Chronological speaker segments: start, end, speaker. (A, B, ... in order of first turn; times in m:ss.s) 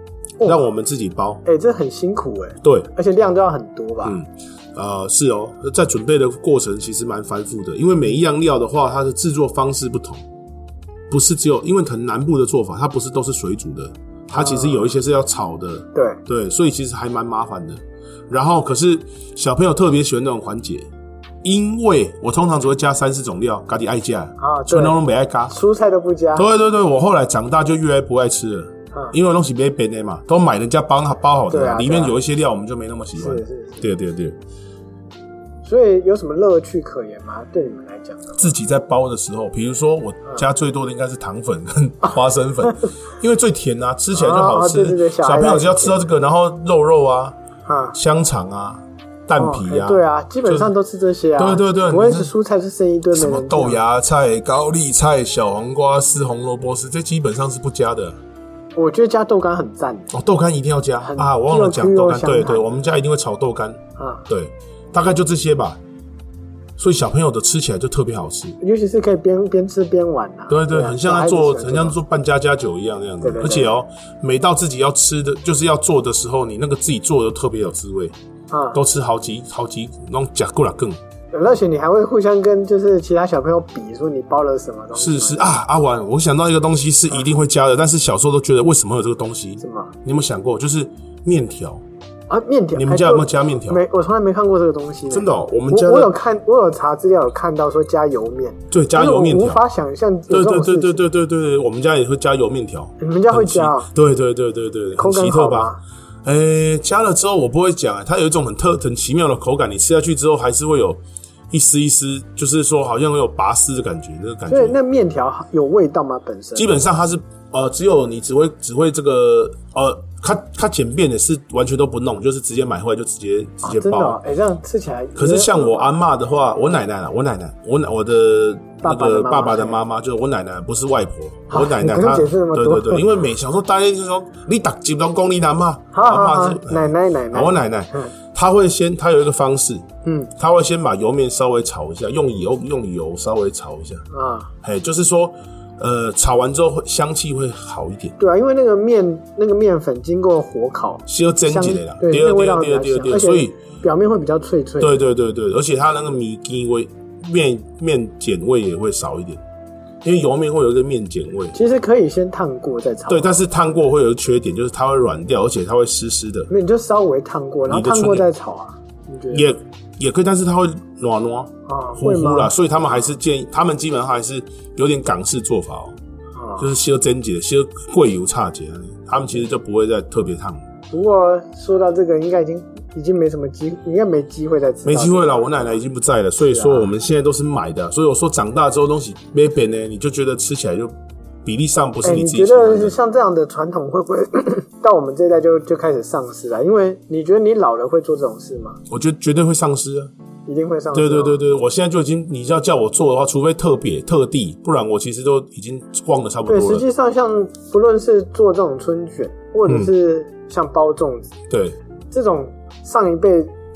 0:00.4-0:01.4 A
0:01.4-0:04.2 B
0:02.6-0:02.9 A
0:04.0-0:10.2 A
0:11.1-0:20.9 A
0:14.3-0:14.9 B
0:16.0-0:16.2 B
0:21.4-0:25.6 A
0:24.4-0:25.0 B
0:25.5-0:26.4 B
0:26.4-0:34.4 A
0:31.5-0:32.2 B
0:33.2-0:33.8 B
0:35.6-0:38.5 B
0:38.4-0:47.4 A
0:44.1-0:46.0 B
0:47.7-0:48.0 B
0:47.9-0:50.7 A
0:49.4-0:53.8 B
0:51.4-0:52.3 A
0:53.1-0:58.2 A
0:58.8-1:00.1 B
1:00.1-1:05.8 A
1:01.0-1:02.6 B
1:04.0-1:04.2 B
1:06.8-1:08.6 A
1:08.6-1:12.0 B
1:10.5-1:18.1 A
1:13.2-1:13.7 B
1:18.5-1:18.8 B
1:18.7-1:21.0 A
1:21.3-1:25.5 B
1:25.0-1:31.8 A
1:29.6-1:29.9 B
1:32.3-1:41.0 B
1:32.8-1:33.8 A
1:35.1-1:36.1 A
1:38.7-1:39.6 A
1:40.3-1:45.7 A
1:43.0-1:43.9 B
1:45.0-1:45.8 B
1:46.2-1:54.8 A
1:54.5-1:56.7 B
1:56.6-2:04.2 A
2:03.6-2:05.9 B
2:05.2-2:19.9 A
2:08.8-2:09.8 B
2:11.5-2:13.1 B
2:15.9-2:18.1 B
2:20.0-2:20.3 B
2:20.4-2:24.0 A
2:24.1-2:24.5 B
2:24.6-2:28.2 A
2:28.2-2:35.0 B
2:31.1-2:33.6 A
2:34.8-2:39.4 A
2:40.0-2:41.6 A
2:41.5-2:43.4 B
2:43.1-2:46.5 A
2:46.5-2:49.5 B
2:47.7-2:48.3 A
2:49.3-2:56.0 A
2:51.7-2:52.5 B
2:56.4-2:56.7 B
2:56.6-3:00.6 A
3:00.9-3:05.8 B
3:04.8-3:10.9 A
3:06.4-3:06.9 B
3:11.4-3:12.9 A
3:12.0-3:18.8 B
3:18.9-3:20.1 A
3:20.5-3:21.4 B
3:20.9-3:26.9 A
3:26.5-3:31.3 B
3:31.5-3:31.8 A
3:32.1-3:33.5 B